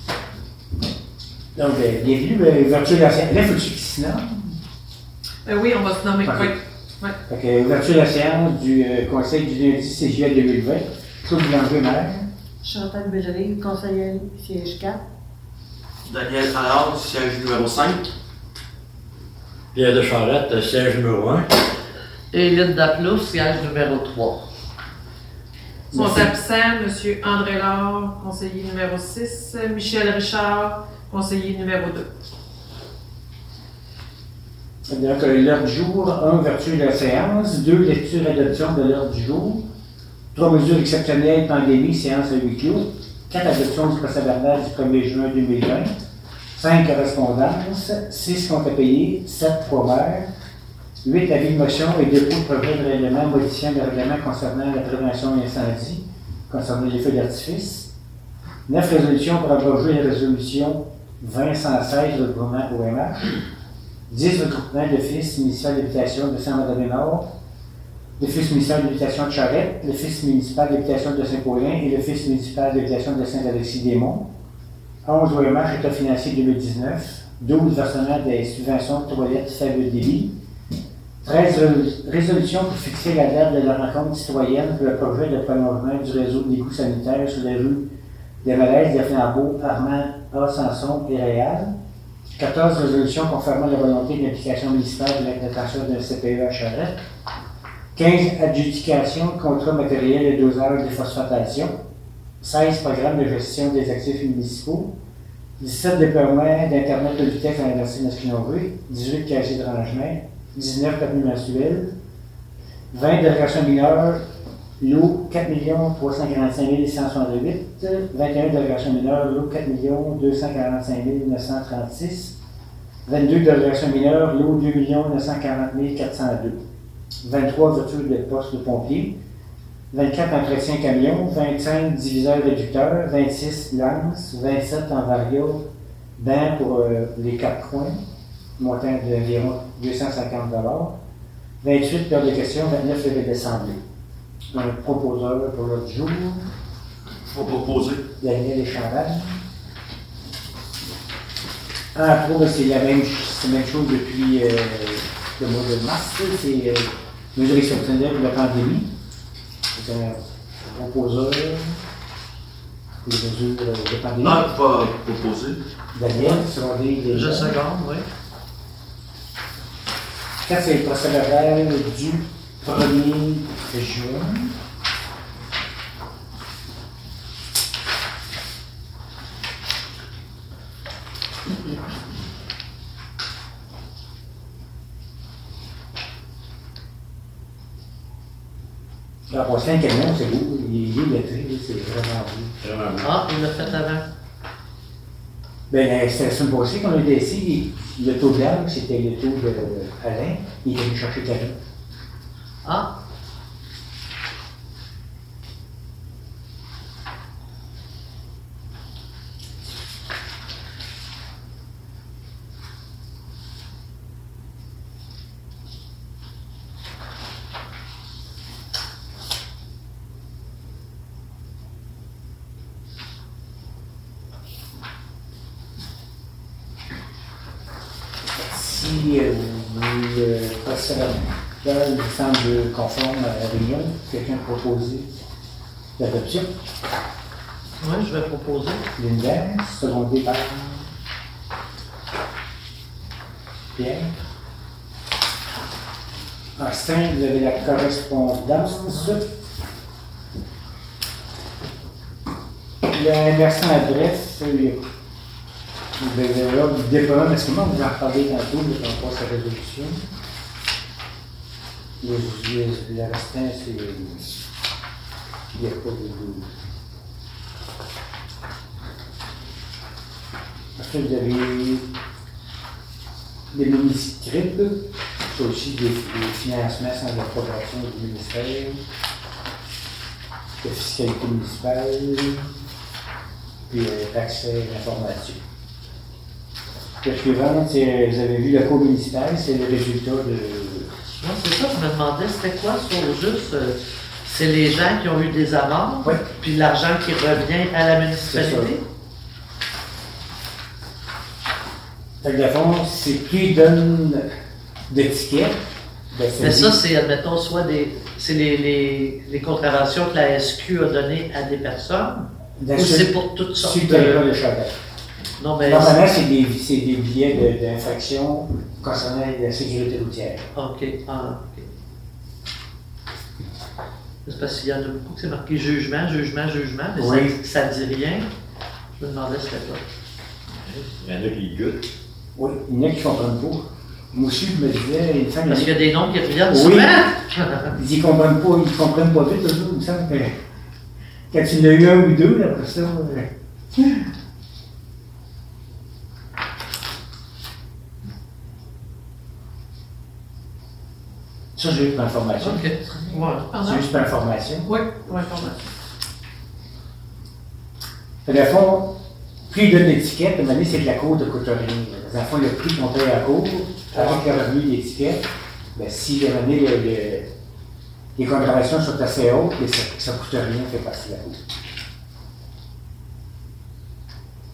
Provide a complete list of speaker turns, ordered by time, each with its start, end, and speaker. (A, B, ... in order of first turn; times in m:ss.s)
0:01.5-0:04.6 A
0:05.4-0:07.1 B
0:06.2-0:06.5 A
0:07.3-0:12.3 A
0:12.6-0:15.0 C
0:16.0-0:18.1 D
0:19.7-0:21.5 E
0:22.3-0:24.4 F
0:25.9-0:26.3 A
0:25.9-0:32.0 B
0:34.9-0:39.6 A
0:40.3-0:45.9 A
0:46.5-0:50.3 A
0:51.0-0:57.9 A
0:58.7-1:03.4 A
1:04.1-1:07.3 A
1:08.2-1:14.3 A
1:15.0-1:20.3 A
1:21.2-1:27.9 A
1:28.4-1:31.7 A
1:32.4-1:37.0 A
1:37.9-1:41.8 A
1:42.4-1:44.9 A
1:45.6-1:51.9 A
1:52.9-1:54.2 A
1:54.8-2:02.3 A
2:03.0-2:06.6 A
2:07.2-2:09.1 A
2:09.9-2:15.6 A
2:16.2-2:18.0 A
2:18.6-2:21.0 A
2:21.6-2:23.8 A
2:24.5-2:26.4 A
2:27.3-2:28.0 D
2:28.2-2:29.4 A
2:31.9-2:38.9 A
2:39.7-2:41.8 A
2:43.0-2:44.4 A
2:44.2-2:45.6 D
2:45.9-2:47.6 A
2:47.1-2:48.1 F
2:50.4-2:54.5 A
3:09.3-3:12.5 A
3:12.6-3:13.1 E
3:13.0-3:14.0 F
3:15.7-3:21.6 A
3:22.6-3:22.9 F
3:48.4-3:55.1 A
3:56.0-3:56.5 A
3:57.8-3:58.8 F
3:59.0-4:00.9 A
4:03.7-4:04.1 A
4:06.6-4:09.2 A
4:12.8-4:14.8 A
4:16.0-4:20.1 A
4:22.0-4:24.3 A
4:25.5-4:26.5 A
4:30.8-4:31.9 A
4:33.5-4:38.8 A
4:40.6-4:42.5 A
4:43.7-4:45.4 A
4:47.0-4:50.9 A
4:51.2-4:58.8 F
4:58.2-4:58.7 A
5:02.2-5:04.3 A
5:04.9-5:05.6 A
5:06.1-5:06.8 A
5:06.4-5:14.2 F
5:12.6-5:14.7 A
5:15.4-5:16.0 F
5:15.6-5:20.5 A
5:20.5-5:21.7 F
5:24.2-5:28.3 F
5:27.0-5:27.3 A
5:29.0-5:29.8 F
5:30.6-5:31.9 E
5:32.4-5:35.7 A
5:35.5-5:37.7 F
5:36.5-5:37.2 A
5:37.7-5:40.3 A
5:41.3-5:44.0 A
5:51.5-5:54.7 A
5:52.4-5:53.5 F
5:53.5-5:53.8 B
5:54.6-5:55.7 B
5:58.2-5:58.9 A
5:59.5-6:07.3 A
6:08.2-6:11.4 A